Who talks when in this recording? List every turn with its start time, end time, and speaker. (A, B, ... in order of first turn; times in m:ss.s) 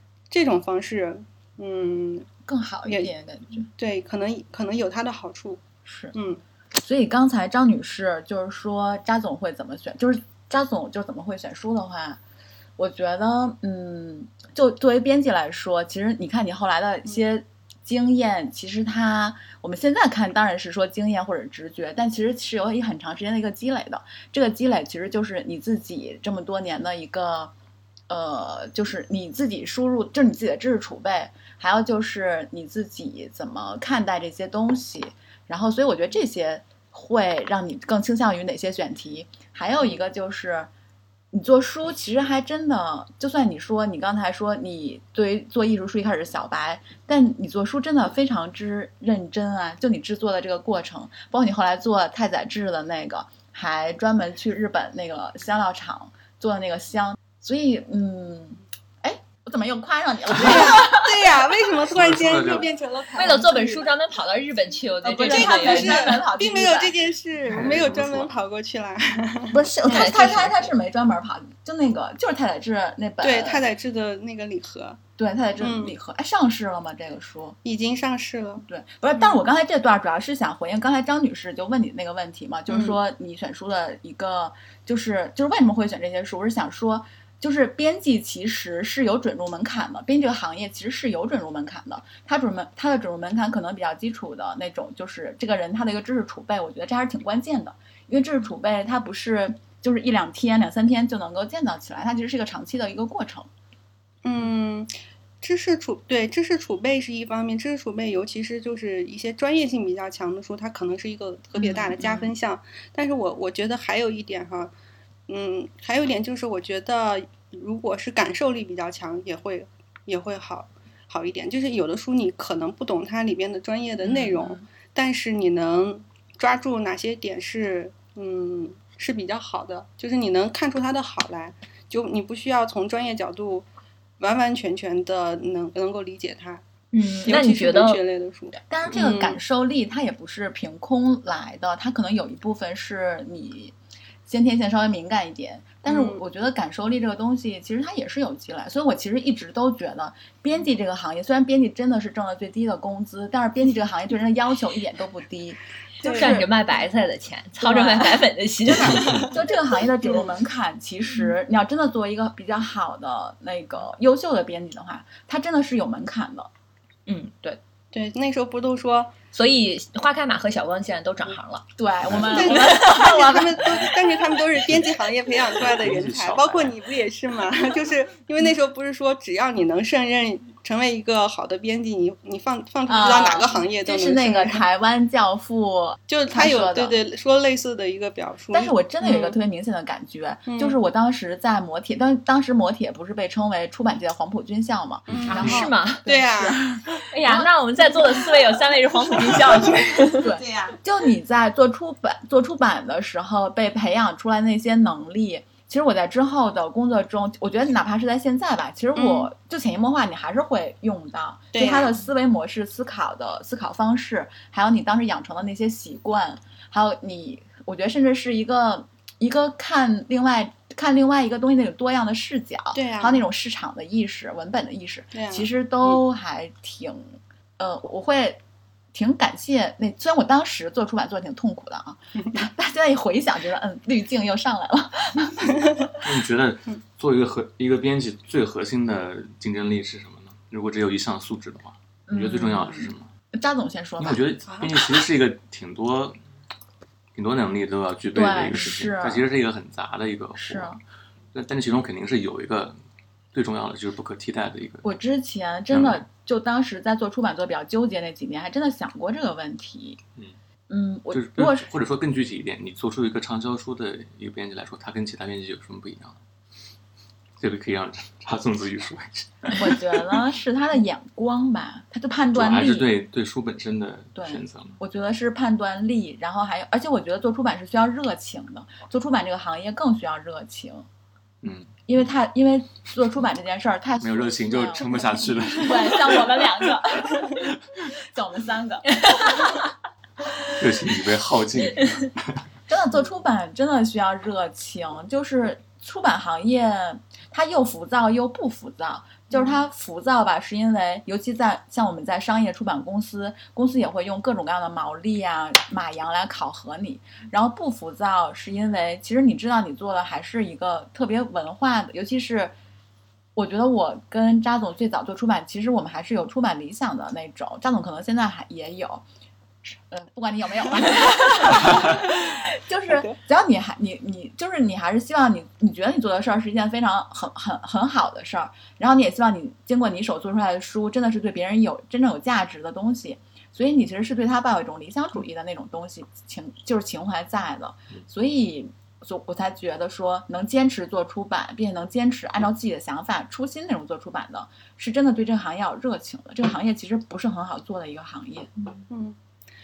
0:00.3-0:02.3 A
0:02.4-0:03.7 B
0:03.8-0:05.6 A
0:05.8-0:06.1 B
0:06.1-0:06.4 A
0:06.7-0:12.2 B
0:12.8-0:27.5 B
0:28.1-0:40.7 B
0:41.3-1:01.0 B
1:00.3-1:03.8 A
1:01.9-1:02.7 C
1:03.1-1:06.2 D
1:05.0-1:06.9 B
1:05.2-1:10.1 A
1:07.5-1:08.3 C
1:09.5-1:13.6 B
1:09.8-1:10.6 D
1:13.2-1:15.0 A
1:15.2-1:17.6 B
1:15.6-1:15.9 A
1:17.6-1:18.6 A
1:18.6-1:43.5 B
1:22.7-1:23.0 A
1:44.2-1:54.7 A
1:51.6-1:52.3 B
1:55.3-2:13.6 A
2:04.0-2:04.6 B
2:14.2-2:16.6 A
2:16.9-2:18.0 D
2:17.2-2:19.4 A
2:18.7-2:23.7 B
2:24.3-2:36.5 B
2:25.9-2:26.2 A
2:36.0-2:36.4 A
2:36.0-2:39.2 D
2:37.6-2:38.3 B
2:38.7-2:39.2 C
2:38.9-2:39.4 A
2:39.3-2:46.5 B
2:40.0-2:40.3 A
2:47.1-2:47.6 D
2:47.9-2:49.1 A
2:49.3-2:51.6 D
2:51.8-2:53.8 B
2:52.0-2:52.4 C
2:52.3-3:04.6 A
2:52.4-2:52.7 D
2:54.5-2:55.0 C
2:55.5-2:56.8 C
3:02.9-3:07.0 B
3:06.1-3:09.4 A
3:08.5-3:18.2 B
3:10.5-3:10.8 A
3:15.1-3:16.7 A
3:15.1-3:15.5 C
3:15.3-3:16.0 D
3:17.1-3:20.3 D
3:19.7-3:48.4 B
3:29.0-3:29.3 A
3:31.5-3:31.9 A
3:42.7-3:43.2 A
3:45.1-3:46.0 A
3:48.9-3:55.6 B
3:56.0-4:03.1 C
4:02.1-4:04.2 B
4:04.0-4:06.2 C
4:04.5-4:04.8 A
4:07.1-4:10.8 C
4:08.1-4:09.2 B
4:10.4-4:10.8 B
4:11.3-4:12.7 C
4:13.3-4:14.9 C
4:14.8-4:20.0 B
4:15.7-4:16.0 C
4:20.7-4:21.7 B
4:21.1-4:26.2 C
4:27.4-4:29.8 C
4:29.5-4:32.9 B
4:32.3-4:34.8 C
4:34.1-4:40.8 B
4:41.4-4:41.8 C
4:41.9-4:49.6 B
4:44.0-4:47.4 C
4:49.0-4:49.4 D
4:50.6-4:52.4 C
4:52.7-5:12.5 B
5:13.4-5:19.0 B
5:19.6-5:48.5 B
5:22.9-5:23.2 A
5:48.9-5:49.2 A